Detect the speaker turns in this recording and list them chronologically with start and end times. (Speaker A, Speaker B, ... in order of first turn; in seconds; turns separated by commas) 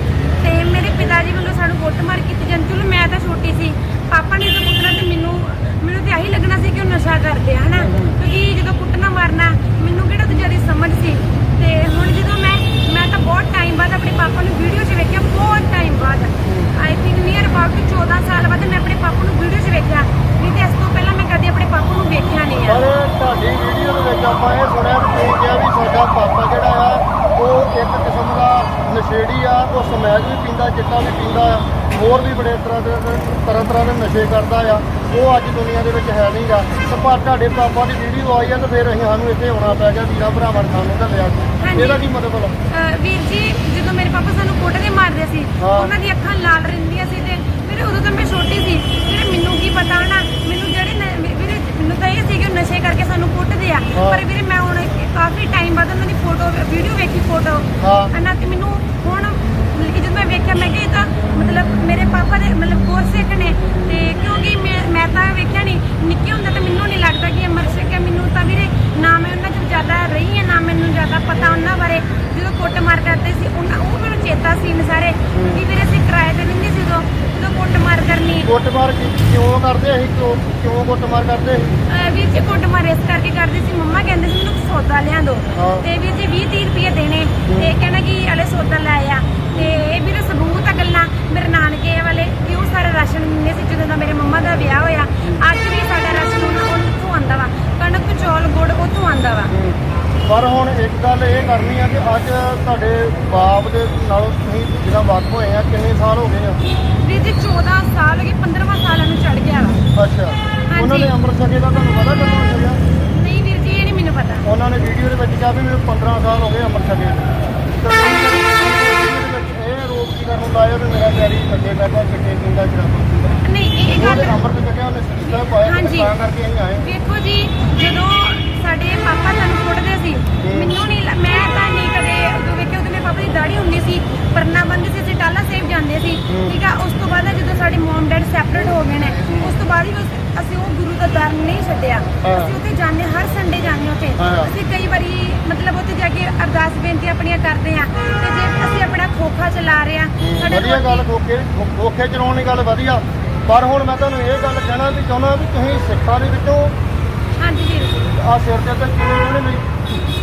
Speaker A: 0.4-22.9, Speaker B: 7.8-8.2, Speaker B: 16.4-16.7, Speaker B: 22.7-42.5, Speaker A: 41.6-42.0, Speaker A: 42.7-78.5, Speaker B: 45.6-45.9, Speaker B: 53.9-54.2, Speaker B: 57.8-58.1, Speaker B: 75.3-75.6, Speaker B: 78.5-81.8, Speaker A: 81.9-99.5, Speaker B: 85.5-85.9, Speaker B: 87.5-87.7, Speaker B: 99.5-106.6, Speaker A: 107.0-109.8, Speaker B: 110.0-112.8, Speaker A: 110.7-111.1, Speaker A: 113.1-114.5, Speaker B: 114.4-117.3, Speaker B: 117.8-123.4, Speaker A: 123.4-124.4, Speaker B: 124.0-126.9, Speaker A: 125.3-126.1, Speaker A: 126.8-151.1, Speaker B: 130.4-130.7, Speaker B: 136.3-136.6, Speaker B: 139.2-139.6, Speaker B: 142.2-142.6, Speaker B: 144.2-144.5, Speaker B: 150.2-156.7, Speaker A: 157.4-158.1, Speaker B: 158.1-159.7